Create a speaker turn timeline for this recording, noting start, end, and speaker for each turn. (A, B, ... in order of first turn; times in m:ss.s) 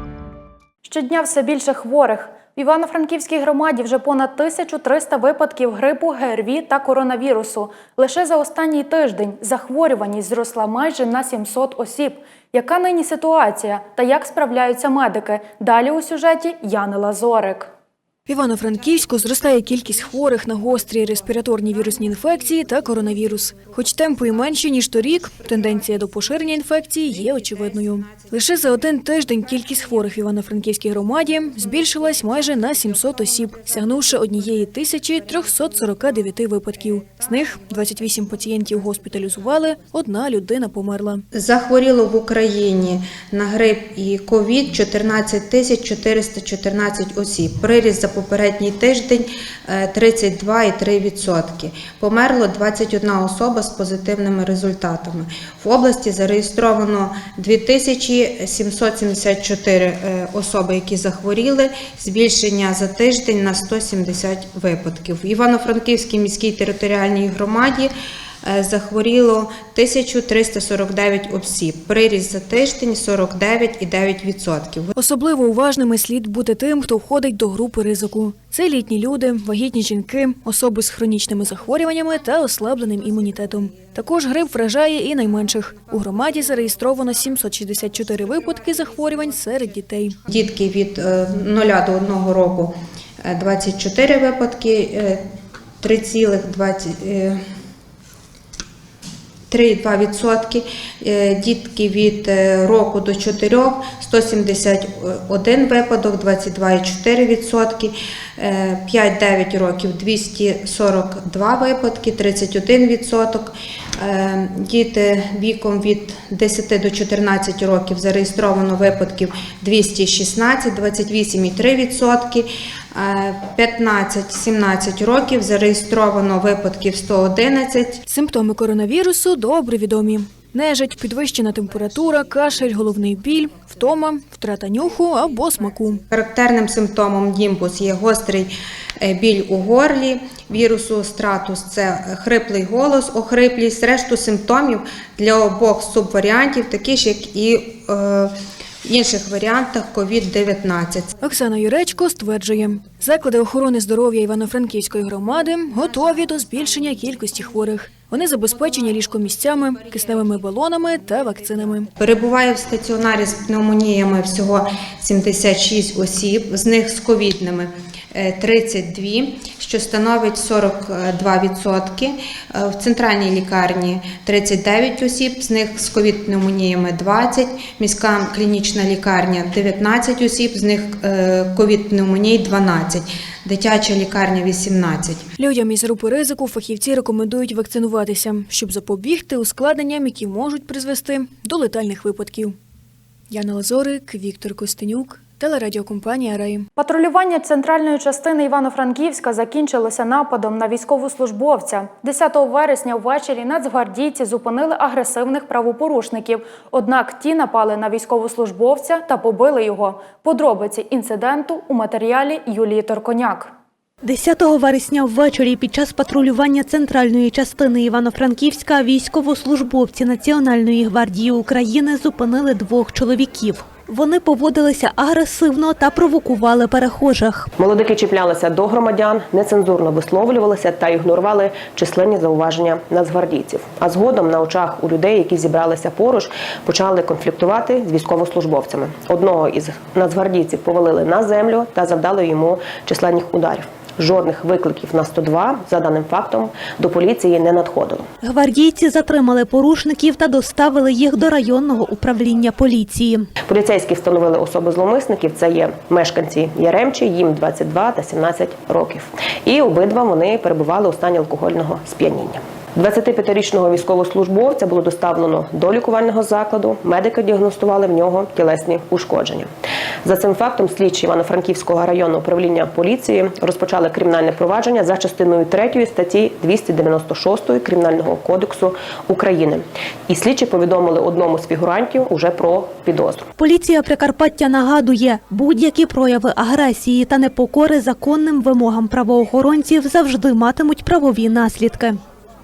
0:00.8-0:17.7 A
0:18.3-0:41.2 B
0:41.3-1:07.9 C
1:08.4-1:14.9 C
1:15.0-1:30.2 B
1:30.3-1:35.2 C
1:35.8-1:37.4 C
1:39.5-2:08.0 C
2:08.1-2:16.0 B
2:16.1-2:31.1 C
2:31.2-2:41.9 B
2:42.0-3:05.2 C
3:05.4-3:12.6 B
3:13.3-3:16.7 B
3:16.8-3:33.5 A
3:34.0-3:47.5 D
3:47.6-4:08.1 E
4:08.2-4:13.3 D
4:13.5-4:29.5 E
4:30.0-4:43.2 E
4:43.4-4:52.0 D